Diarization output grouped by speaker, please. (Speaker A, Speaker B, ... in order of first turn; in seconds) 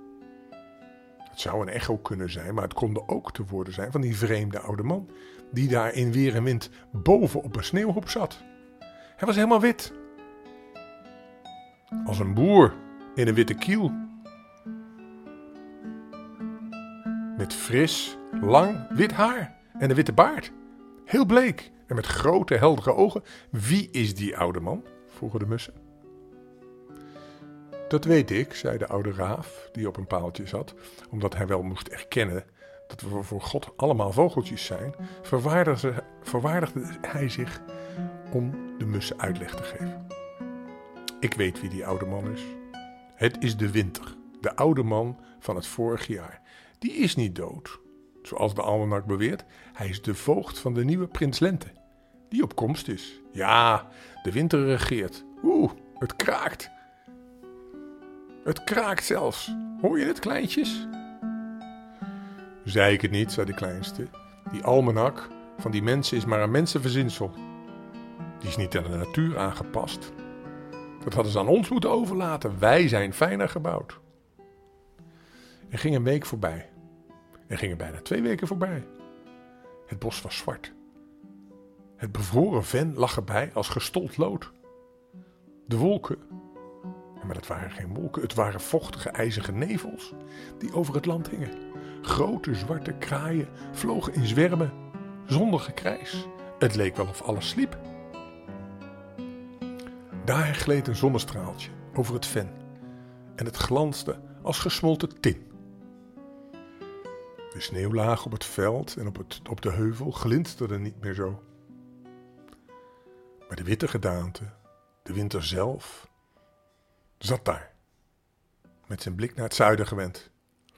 Speaker A: 1.3-8.4, 9.2-9.9, 12.0-14.0, 17.4-20.5, 21.1-25.8, 27.9-37.6, 38.3-40.0, 41.2-42.6, 43.2-51.7, 52.3-56.7, 58.4-60.9, 62.6-67.4, 68.4-70.1, 71.0-74.0, 75.7-76.7, 77.5-78.9, 79.9-80.7, 82.0-84.5, 85.7-86.2, 87.2-97.8, 100.2-102.6, 103.3-105.5, 107.5-111.4, 113.5-116.1, 117.2-117.7, 118.9-120.3